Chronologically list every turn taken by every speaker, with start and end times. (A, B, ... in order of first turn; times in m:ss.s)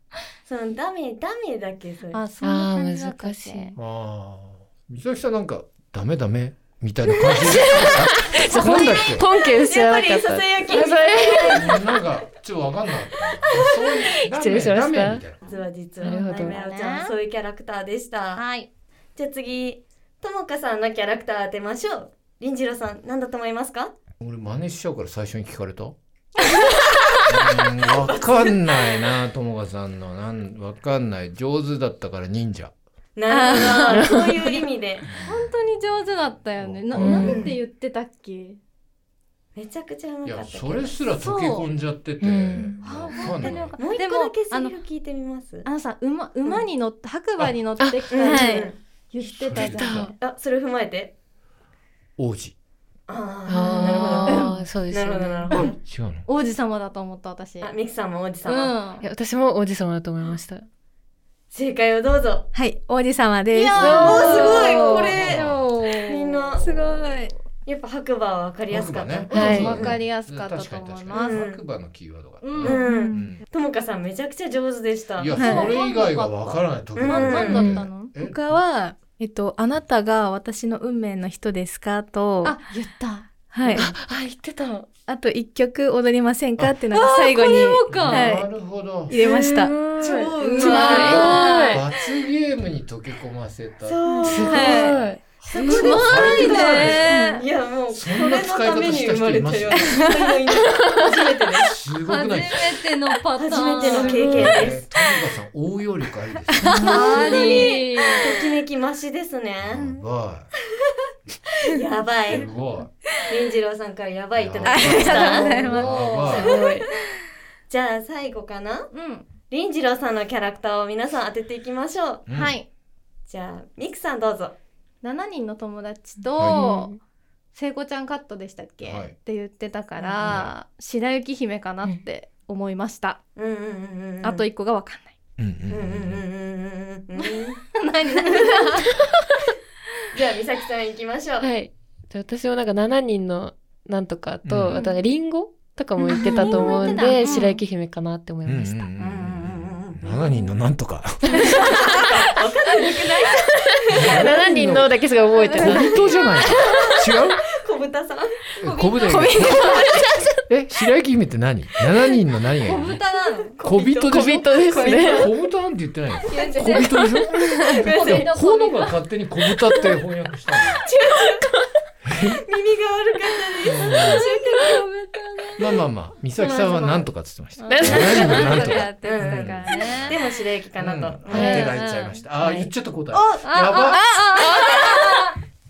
0:00.5-0:02.2 A
0:02.1-0:03.8 B
0:02.4-0:03.8 C
0:03.8-0:09.3 D
0:07.1-0:11.8 C
0:08.6-0:12.0 A
0:11.5-0:15.4 D
0:13.2-0:15.2 C
0:15.4-0:18.4 A
0:16.0-0:16.6 C
0:16.4-0:17.2 B
0:18.4-0:18.7 B
0:19.2-0:24.0 A
0:24.2-0:26.0 D
0:27.2-0:32.8 D
0:27.4-0:29.1 A
0:33.2-0:35.1 A
0:33.3-0:34.6 B
0:33.9-0:34.2 C
0:35.0-0:35.5 D
0:35.2-0:38.6 B
0:36.6-0:37.4 D
0:36.9-0:37.5 C
0:37.1-0:37.6 A
0:39.6-0:41.0 A
0:40.2-0:43.8 D
0:41.2-0:41.7 B
0:42.2-0:42.8 C
0:42.8-0:44.8 B
0:43.4-0:45.7 A
0:45.6-0:50.1 B
0:47.8-0:48.4 C
0:48.1-0:48.8 A
0:49.3-0:50.1 D
0:49.5-0:50.1 C
0:50.2-0:51.1 A
0:52.2-0:52.6 D
0:53.1-0:55.8 A
0:53.5-0:55.7 C
0:53.9-0:54.2 D
0:55.6-0:56.3 D
0:56.3-0:57.7 B
0:57.6-0:58.8 A
0:58.4-0:59.0 B
0:59.0-1:00.6 C
1:01.5-1:02.5 A
1:02.5-1:04.2 E
1:03.5-1:06.8 A
1:03.8-1:05.1 C
1:03.8-1:07.3 B
1:03.9-1:05.7 D
1:06.8-1:07.3 E
1:07.6-1:10.0 A
1:08.7-1:13.4 D
1:09.3-1:11.4 B
1:09.3-1:09.8 C
1:11.1-1:11.6 A
1:12.4-1:12.9 B
1:12.6-1:15.4 A
1:12.8-1:13.3 E
1:15.2-1:18.4 D
1:15.3-1:15.8 E
1:15.4-1:18.1 B
1:17.0-1:17.8 A
1:17.6-1:22.6 E
1:22.4-1:23.8 B
1:23.4-1:23.8 E
1:23.7-1:24.9 C
1:25.1-1:28.5 E
1:26.9-1:28.4 B
1:27.9-1:29.2 D
1:29.1-1:29.8 E
1:29.1-1:31.9 C
1:30.0-1:31.8 A
1:30.5-1:31.8 B
1:30.6-1:31.4 E
1:31.0-1:37.2 D
1:33.8-1:35.0 A
1:34.2-1:35.2 C
1:35.5-1:41.8 A
1:35.5-1:37.4 B
1:35.6-1:37.3 E
1:37.9-1:40.1 D
1:41.7-1:42.7 D
1:42.1-1:44.5 B
1:43.4-1:44.9 A
1:43.9-1:46.9 D
1:46.6-1:47.0 E
1:46.7-1:48.3 B
1:46.8-1:50.0 A
1:49.6-1:50.5 D
1:51.7-1:52.5 A
1:52.3-1:52.9 D
1:53.3-1:56.7 A
1:54.4-1:56.6 D
1:54.7-1:55.9 E
1:54.9-1:56.5 B
1:56.3-1:56.9 C
1:57.7-1:58.9 A
1:58.9-1:59.3 B
1:59.5-2:02.2 A
2:02.3-2:02.6 D
2:02.3-2:02.7 B
2:03.3-2:04.6 A
2:05.0-2:06.9 B
2:06.4-2:07.0 C
2:07.5-2:13.2 B
2:08.8-2:09.2 D
2:10.0-2:10.4 A
2:10.2-2:10.5 D
2:13.4-2:14.4 A
2:14.2-2:15.2 B
2:15.4-2:16.2 D
2:15.7-2:17.6 A
2:17.2-2:19.0 B
2:20.1-2:21.5 A
2:21.4-2:28.9 C
2:24.4-2:24.8 D
2:26.1-2:27.6 B
2:28.4-2:31.9 D
2:29.0-2:30.5 A
2:31.3-2:34.5 A
2:33.9-2:35.0 D
2:34.0-2:36.2 C
2:35.4-2:36.3 B
2:35.5-2:37.4 D
2:35.6-2:38.3 A
2:38.6-2:43.0 D
2:38.6-2:40.0 B
2:39.2-2:40.3 E
2:42.6-2:43.6 B
2:43.6-2:45.3 A
2:43.6-2:50.8 D
2:44.1-2:45.3 C
2:46.2-2:47.3 B
2:46.3-2:48.3 A
2:47.9-2:48.9 B
2:50.6-2:51.4 A
2:52.0-2:52.4 D
2:52.4-2:54.9 A
2:53.6-2:54.2 D
2:54.0-2:55.6 B
2:55.6-3:00.2 D
2:56.4-2:57.1 A
2:57.6-3:00.2 B
2:57.7-2:58.7 C
2:57.8-3:01.8 A
3:00.8-3:04.0 D
3:01.3-3:01.8 C
3:01.4-3:02.2 B
3:02.4-3:02.7 C
3:03.1-3:05.3 A
3:03.4-3:05.4 B